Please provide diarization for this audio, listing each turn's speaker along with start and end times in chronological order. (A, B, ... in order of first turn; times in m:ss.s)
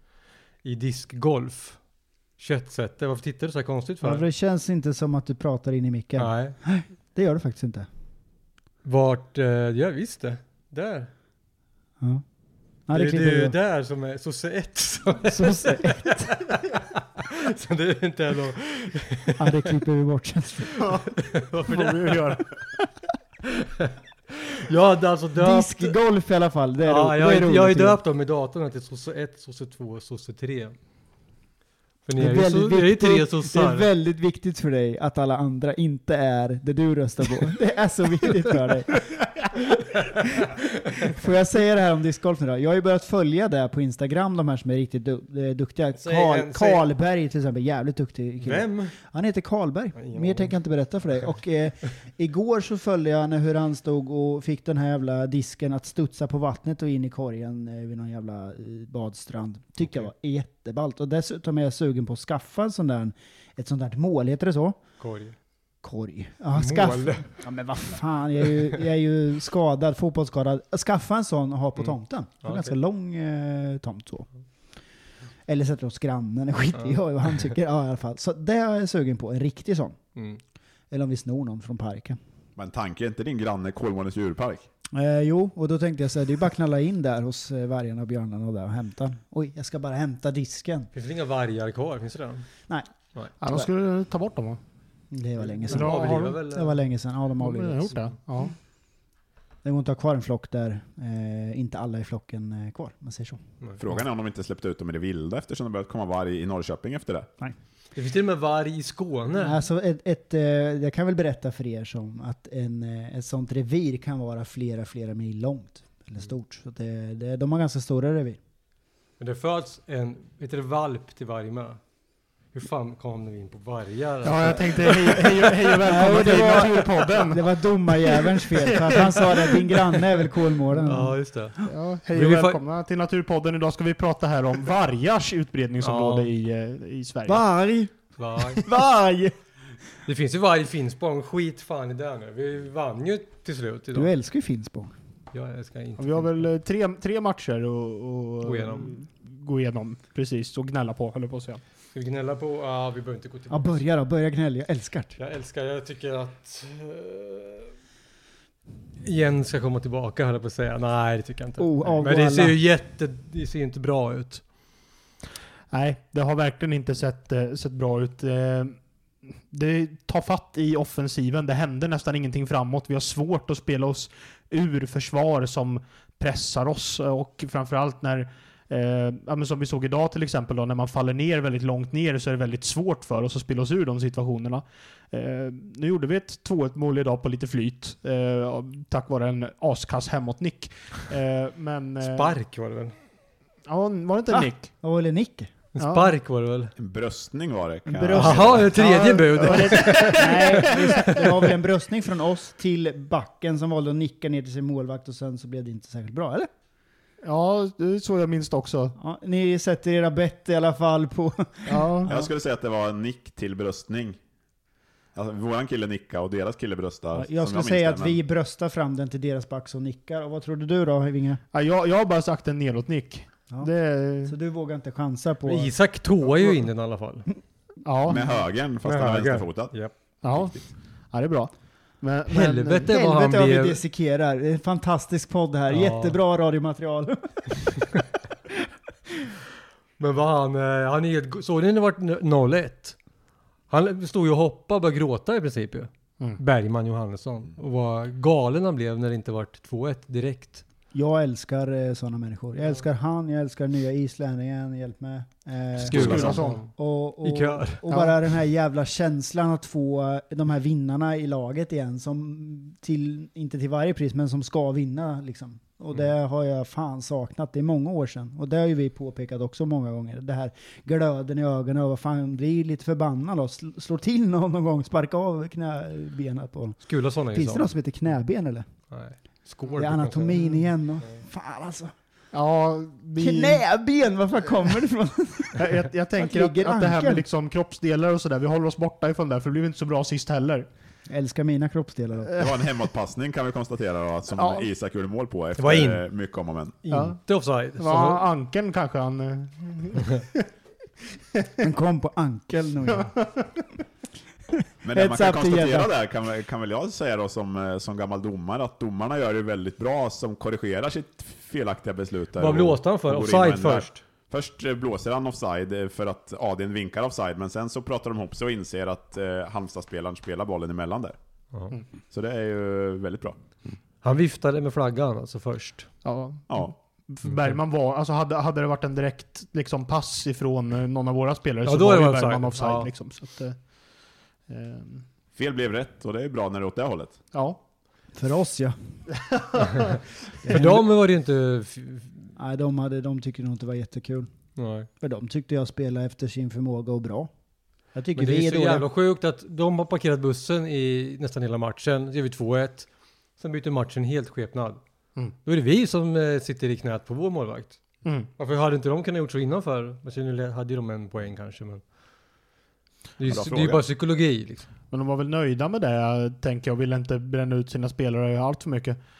0:00.6-0:01.8 A
0:02.4-0:04.2 A
0:04.0-0:07.9 B
0:06.2-0:06.6 A
0:08.8-0:11.1 A
0:12.9-0:13.6 B
0:12.9-0:19.6 A
0:15.3-0:16.3 B
0:19.4-0:20.8 B
0:20.8-0:21.1 C
0:21.1-0:22.2 A
0:21.7-0:22.4 C
0:23.4-0:23.9 A
0:24.4-0:26.0 A
0:25.4-0:28.0 B
0:26.8-0:30.7 A
0:32.0-0:33.9 A
0:32.2-1:04.8 B
0:46.0-0:46.8 A
0:48.4-0:49.0 A
0:50.0-0:50.5 A
1:05.0-1:05.3 A
1:05.8-1:14.3 B
1:06.5-1:07.3 A
1:11.8-1:12.7 A
1:15.4-1:20.0 B
1:20.9-1:22.2 B
1:22.6-1:24.7 D
1:24.9-1:30.9 B
1:30.9-1:32.5 A
1:33.4-1:34.6 C
1:35.1-1:38.0 B
1:35.6-1:36.8 A
1:35.6-1:36.4 C
1:37.4-1:38.5 C
1:39.6-1:43.4 B
1:43.8-1:47.3 D
1:47.9-1:49.6 A
1:49.4-1:58.4 B
1:59.2-2:01.8 A
2:02.5-2:05.3 A
2:04.2-2:10.0 C
2:05.8-2:11.7 B
2:10.7-2:11.6 A
2:11.7-2:17.4 C
2:12.1-2:12.6 A
2:15.8-2:16.3 A
2:17.2-2:17.9 B
2:18.2-2:18.6 A
2:18.6-2:19.3 B
2:20.0-2:24.1 A
2:23.9-2:24.9 B
2:25.3-2:26.5 A
2:26.0-2:31.6 C
2:28.4-2:28.9 A
2:31.9-2:33.8 A
2:33.5-2:35.2 B
2:35.2-2:37.7 A
2:39.0-2:44.4 A
2:41.6-2:42.6 B
2:45.7-2:48.8 C
2:49.3-3:12.4 C
3:12.0-3:12.9 A
3:13.7-3:14.7 C
3:14.8-3:15.5 B
3:15.7-3:16.7 A
3:15.8-3:16.1 C
3:16.8-3:18.7 D
3:17.9-3:18.7 B
3:18.1-3:21.2 A
3:18.7-3:21.4 C
3:19.7-3:26.5 B
3:27.2-3:28.9 C
3:29.0-3:32.3 B
3:31.7-3:32.1 C
3:32.0-3:34.2 D
3:35.1-3:38.2 D
3:37.1-3:41.4 B
3:41.5-3:44.4 C
3:44.2-3:45.7 B
3:45.4-3:47.3 A
3:47.8-3:48.2 C
3:48.1-3:49.7 D
3:48.8-3:49.9 A
3:50.2-3:50.5 C
3:50.3-3:50.6 D
3:51.1-3:52.9 C
3:52.3-3:53.8 A
3:52.8-3:57.4 B
3:55.7-3:56.2 A
4:00.0-4:03.0 A
4:03.7-4:10.6 A
4:10.9-4:38.6 B
4:15.8-4:16.6 C
4:15.8-4:17.9 A
4:15.9-4:16.4 D
4:17.9-4:18.2 C
4:36.8-4:37.7 A
4:38.9-4:40.5 A
4:39.8-4:41.9 B
4:42.3-4:43.6 C
4:43.2-4:47.2 B
4:45.6-4:50.7 C
4:51.1-4:52.4 B
4:52.4-4:56.8 D
4:54.3-4:54.7 C
4:55.6-4:56.0 A
4:56.8-4:58.2 A
4:56.9-4:57.2 C
4:57.8-5:00.4 C
5:01.6-5:03.2 B
5:02.9-5:03.4 C
5:04.8-5:05.9 B
5:04.8-5:21.2 D
5:12.4-5:14.0 A
5:21.5-5:21.8 A
5:22.1-5:23.4 D
5:24.0-5:25.9 A
5:26.0-5:33.6 C
5:27.2-5:27.6 A
5:31.6-5:32.9 A
5:34.5-5:35.0 C
5:35.3-5:37.2 D
5:37.3-5:37.6 C
5:38.1-5:38.8 B
5:39.2-5:39.9 C
5:40.4-5:40.9 B
5:40.5-5:42.2 A
5:42.4-5:44.3 B
5:44.6-5:44.9 A
5:45.0-5:47.3 B
5:47.9-5:48.8 B
5:48.2-5:54.8 A
5:55.4-5:57.8 A
5:58.0-5:58.3 C
5:58.4-6:01.8 A
6:03.2-6:04.7 A
6:03.2-6:03.8 D
6:04.9-6:09.0 C